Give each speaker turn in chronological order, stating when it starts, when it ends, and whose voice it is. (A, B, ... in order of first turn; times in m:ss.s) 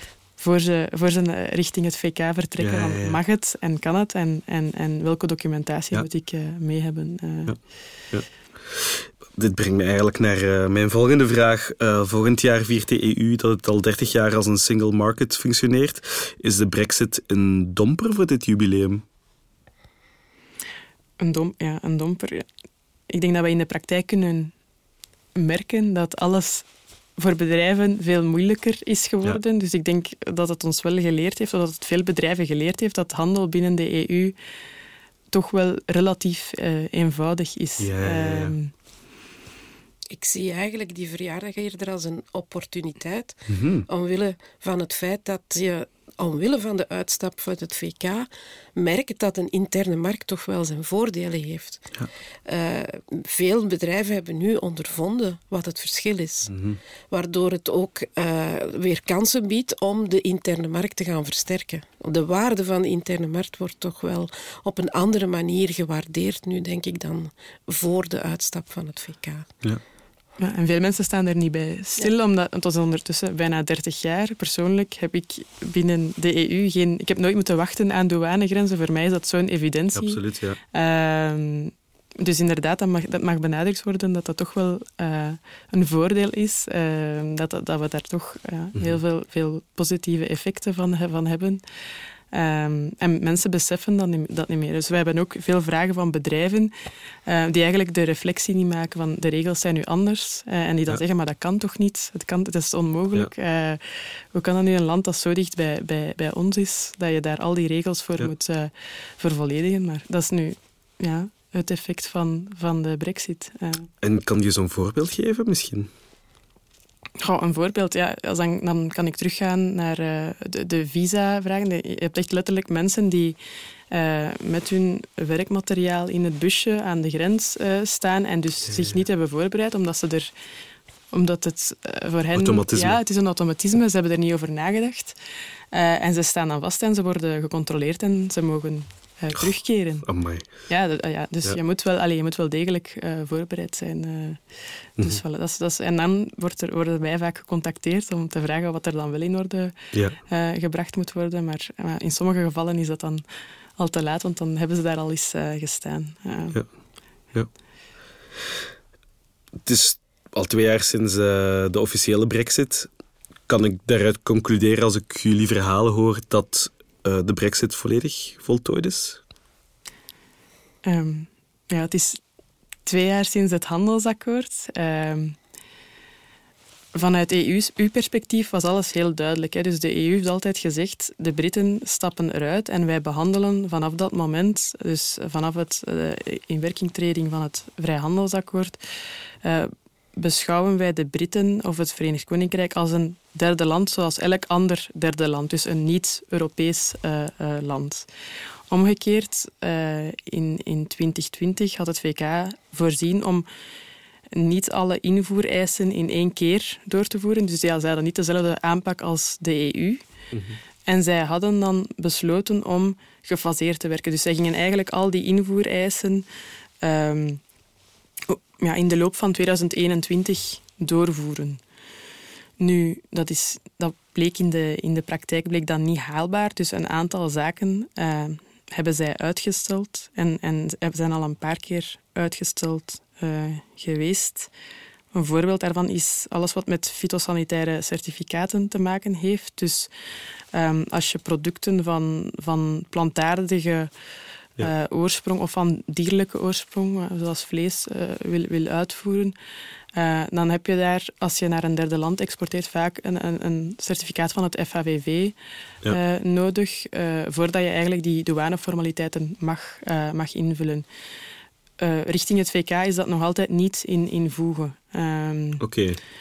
0:00.4-0:07.5 A
0:02.6-0:03.2 B
0:08.1-0:19.0 B
0:21.2-0:22.4 A
0:23.1-0:24.5 A
0:25.3-0:26.6 A
0:27.2-0:34.4 A
0:35.3-0:38.7 A
0:37.8-0:38.6 B
0:40.1-0:51.9 C
0:43.5-0:43.8 B
0:52.4-0:56.5 C
0:56.5-0:56.8 B
0:57.1-1:09.5 C
1:10.4-1:31.6 A
1:19.9-1:20.6 B
1:32.3-1:36.7 A
1:37.2-1:53.9 A
1:54.0-1:55.9 B
1:57.2-2:03.4 A
2:03.9-2:10.3 A
2:11.1-2:15.2 A
2:12.3-2:13.0 B
2:15.7-2:20.1 A
2:20.0-2:20.5 B
2:20.6-2:24.4 A
2:25.0-2:33.2 A
2:33.8-2:36.6 A
2:39.6-2:42.9 B
2:43.5-2:49.2 B
2:50.8-2:52.2 A
2:52.8-2:55.4 A
2:56.9-3:08.8 A
3:09.4-3:18.1 A
3:18.7-3:23.5 A
3:24.3-3:30.0 A
3:30.3-3:30.6 B
3:30.8-3:36.2 A
3:36.8-3:37.4 A
3:38.3-3:41.6 A
3:42.6-3:54.5 A
3:55.1-3:59.9 A
4:00.5-4:03.9 A
4:04.6-4:09.3 A
4:09.9-4:15.3 A
4:15.9-4:20.8 A
4:21.8-4:25.6 A
4:25.6-4:26.0 B